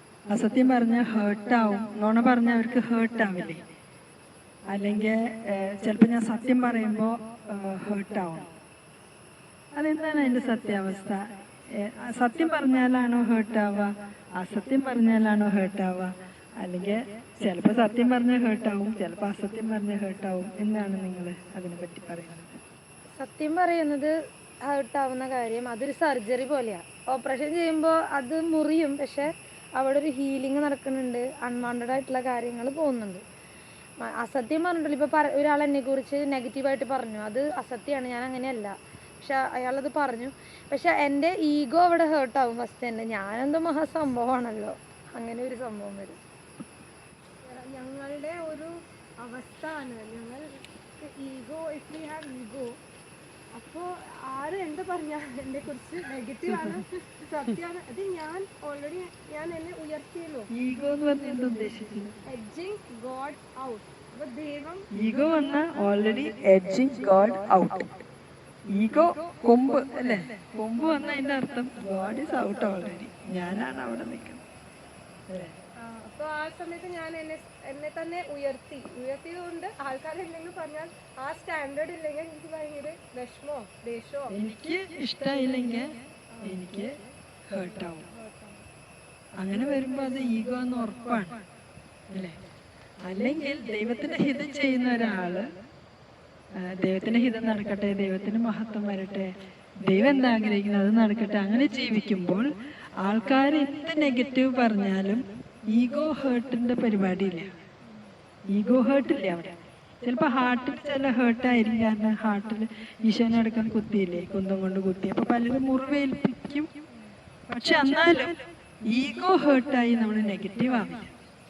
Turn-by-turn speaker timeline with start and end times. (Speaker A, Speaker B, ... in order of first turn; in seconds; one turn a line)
Speaker A: 0.3-3.6
Speaker A: 4.7-8.5
Speaker A: 9.7-22.6
Speaker B: 23.2-24.1
Speaker B: 24.6-33.2
Speaker B: 34.0-46.2
Speaker C: 47.5-50.4
Speaker C: 51.0-52.8
Speaker C: 53.5-60.5
Speaker A: 60.5-62.1
Speaker C: 62.2-64.9
Speaker A: 64.9-67.9
Speaker A: 68.7-74.4
Speaker A: 75.3-75.5
Speaker C: 75.8-84.3
Speaker A: 84.3-85.9
Speaker A: 86.4-88.1
Speaker C: 88.1-88.6
Speaker A: 89.4-91.4
Speaker A: 92.1-92.4
Speaker A: 93.0-95.5
Speaker A: 96.5-99.3
Speaker A: 99.8-102.4
Speaker A: 103.0-107.5
Speaker A: 108.5-116.7
Speaker A: 117.5-121.1